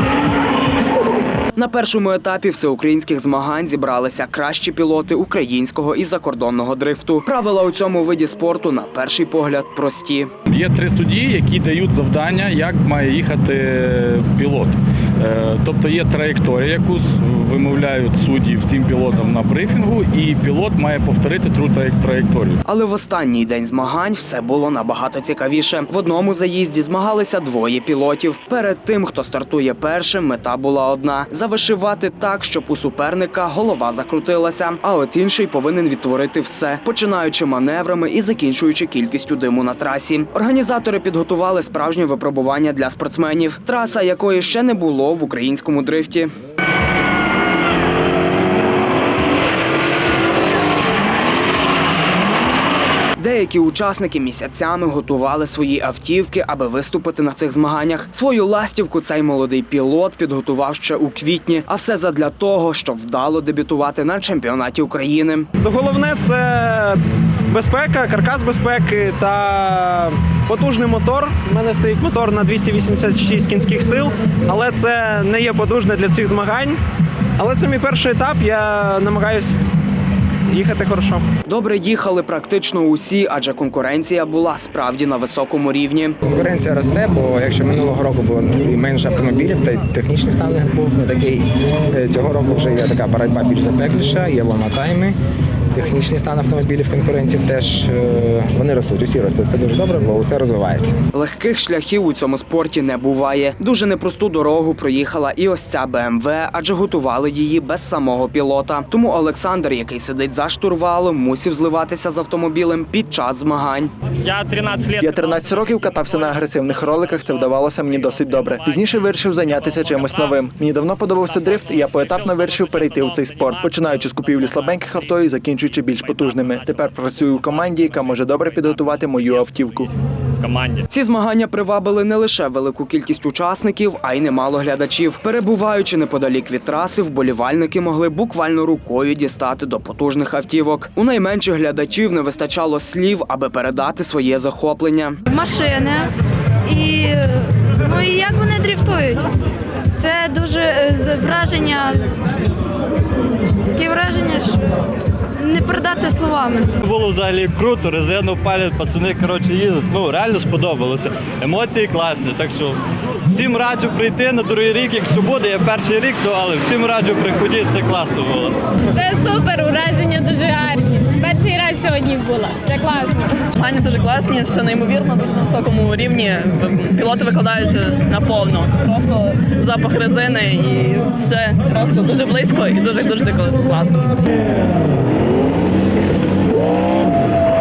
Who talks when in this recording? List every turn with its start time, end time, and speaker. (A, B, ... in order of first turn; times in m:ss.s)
0:01.6-0:10.3 A
0:10.5-0:22.6 B
0:22.7-0:46.3 A
0:53.2-1:05.5 A
1:05.6-1:16.8 C
1:17.4-1:19.5 C
1:20.5-1:21.2 C
1:21.5-1:26.2 A
1:26.2-1:35.2 D
1:35.7-1:40.9 D
1:41.1-1:53.9 A
1:54.2-2:00.5 E
1:55.0-2:09.9 F
2:01.0-2:10.8 E
2:10.9-2:25.2 A
2:25.3-2:26.1 G
2:26.6-2:29.3 G
2:30.0-2:32.1 G
2:33.7-2:34.6 G
2:35.4-2:36.7 G
2:36.8-2:48.6 H
2:48.9-2:53.4 I
2:53.6-3:04.2 E